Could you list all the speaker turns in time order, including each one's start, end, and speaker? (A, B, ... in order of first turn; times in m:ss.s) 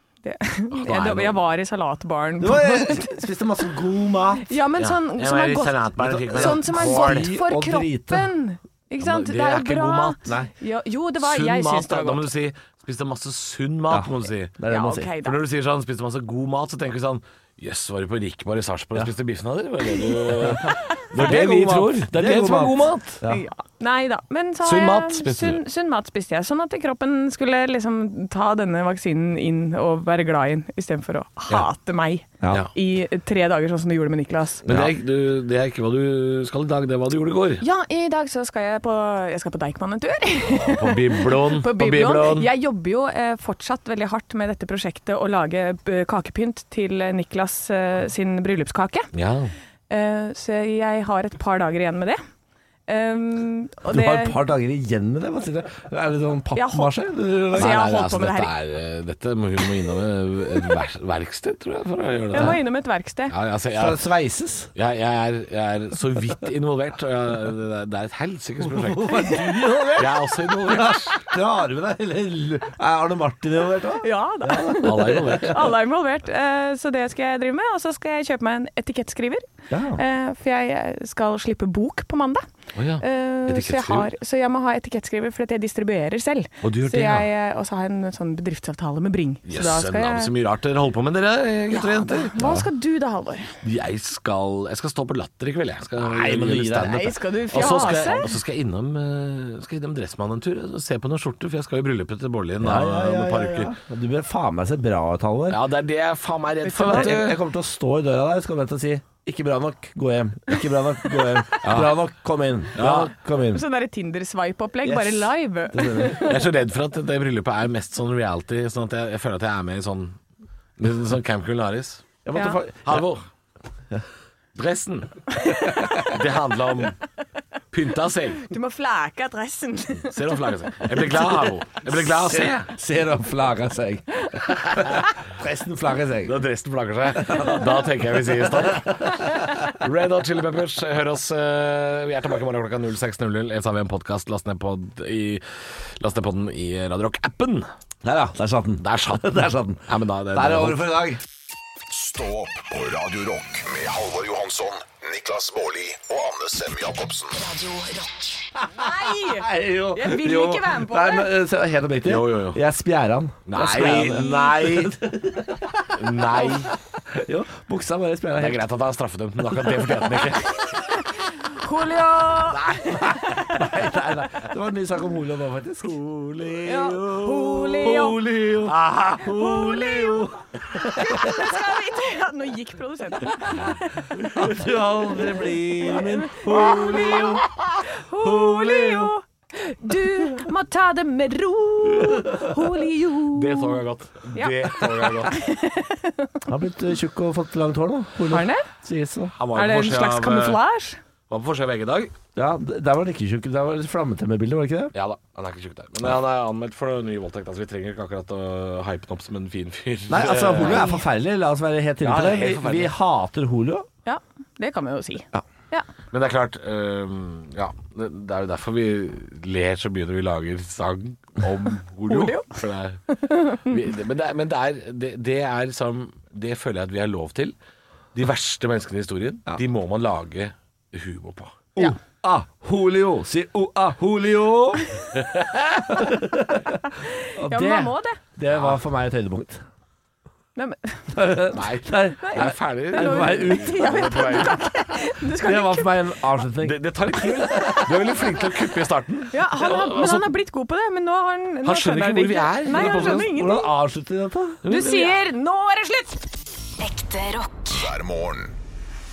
0:00.2-0:03.2 A
0:00.7-0:01.4 B
0:02.4-0:04.5 C
0:04.4-0:12.3 A
0:04.8-0:07.3 B
0:06.0-0:08.3 C
0:09.0-0:10.2 B
0:11.2-0:14.6 B
0:13.9-0:15.1 C
0:14.7-0:15.4 A
0:15.2-0:23.2 B
0:21.1-0:23.4 C
0:23.2-0:34.6 A
0:24.6-0:25.6 B
0:34.6-0:37.6 B
0:34.7-0:34.9 C
0:37.6-0:49.1 A
0:40.4-0:42.5 B
0:49.1-0:49.5 B
0:49.9-0:52.2 A
0:52.9-0:54.4 A
0:53.9-0:57.8 C
0:56.5-0:56.9 A
0:57.5-1:02.6 B
0:57.5-0:58.5 A
1:02.3-1:03.3 A
1:03.3-1:04.0 B
1:03.8-1:04.7 C
1:04.7-1:11.3 B
1:08.6-1:15.6 C
1:14.0-1:19.4 A
1:14.8-1:15.7 B
1:19.7-1:20.0 C
1:19.9-1:22.4 A
1:22.7-1:24.1 B
1:23.0-1:30.3 A
1:26.6-1:27.3 B
1:29.4-1:32.3 B
1:31.7-1:33.5 A
1:32.4-1:32.6 C
1:33.6-1:43.7 B
1:36.0-1:38.0 C
1:36.9-1:38.3 A
1:42.6-1:45.6 C
1:45.5-1:47.4 B
1:46.6-1:47.2 A
1:46.8-1:53.6 C
1:51.6-1:52.0 B
1:52.7-1:53.1 B
1:53.5-1:56.4 A
1:54.8-1:56.3 C
1:56.2-2:00.2 B
2:00.8-2:02.1 B
2:02.2-2:03.0 C
2:02.8-2:03.2 B
2:04.5-2:05.2 B
2:05.4-2:06.1 A
2:06.0-2:07.0 B
2:07.7-2:08.5 B
2:08.4-2:11.4 A
2:10.1-2:12.7 B
2:11.9-2:16.4 C
2:16.2-2:27.7 B
2:17.1-2:17.7 C
2:28.0-2:31.2 C
2:28.8-2:30.9 B
2:31.9-2:37.4 D
2:37.4-2:38.4 E
2:38.6-2:45.9 C
2:38.7-2:41.4 A
2:42.0-2:42.6 B
2:43.5-2:45.0 B
2:45.9-2:46.7 B
2:47.1-2:48.6 C
2:48.4-2:50.8 B
2:50.5-2:53.7 A
2:52.5-2:53.0 B
2:53.1-3:01.4 C
2:56.7-2:58.2 A
2:58.6-2:59.3 B
2:59.3-3:00.2 A
3:00.8-3:04.4 A
3:04.2-3:07.5 C
3:05.9-3:13.8 A
3:08.1-3:09.1 C
3:13.3-3:15.4 B
3:14.3-3:16.5 A
3:16.5-3:19.4 C
3:18.3-3:18.7 A
3:19.4-3:20.6 B
3:19.5-3:21.0 A
3:21.3-3:22.1 B
3:22.3-3:24.9 C
3:24.9-3:30.9 B
3:30.1-3:33.8 C
3:30.6-3:31.0 A
3:32.0-3:33.0 B
3:34.0-3:35.8 A
3:36.1-3:43.0 B
3:42.1-3:42.6 A
3:43.2-3:43.7 A
3:43.6-3:47.5 B
3:48.1-3:51.6 B
3:51.8-3:54.9 C
3:55.2-3:55.9 B
3:55.9-3:56.8 C
3:56.9-3:58.2 A
3:57.3-3:59.6 C
3:58.5-3:58.8 B
4:00.6-4:01.3 A
4:01.1-4:03.9 C
4:01.5-4:04.6 B
4:02.2-4:06.2 A
4:05.4-4:07.8 C
4:06.6-4:10.3 B
4:07.4-4:07.9 A
4:09.3-4:13.7 A
4:11.6-4:13.4 B
4:12.7-4:14.6 C
4:14.6-4:15.2 B
4:14.7-4:16.3 A
4:16.8-4:17.8 E
4:17.7-4:18.6 D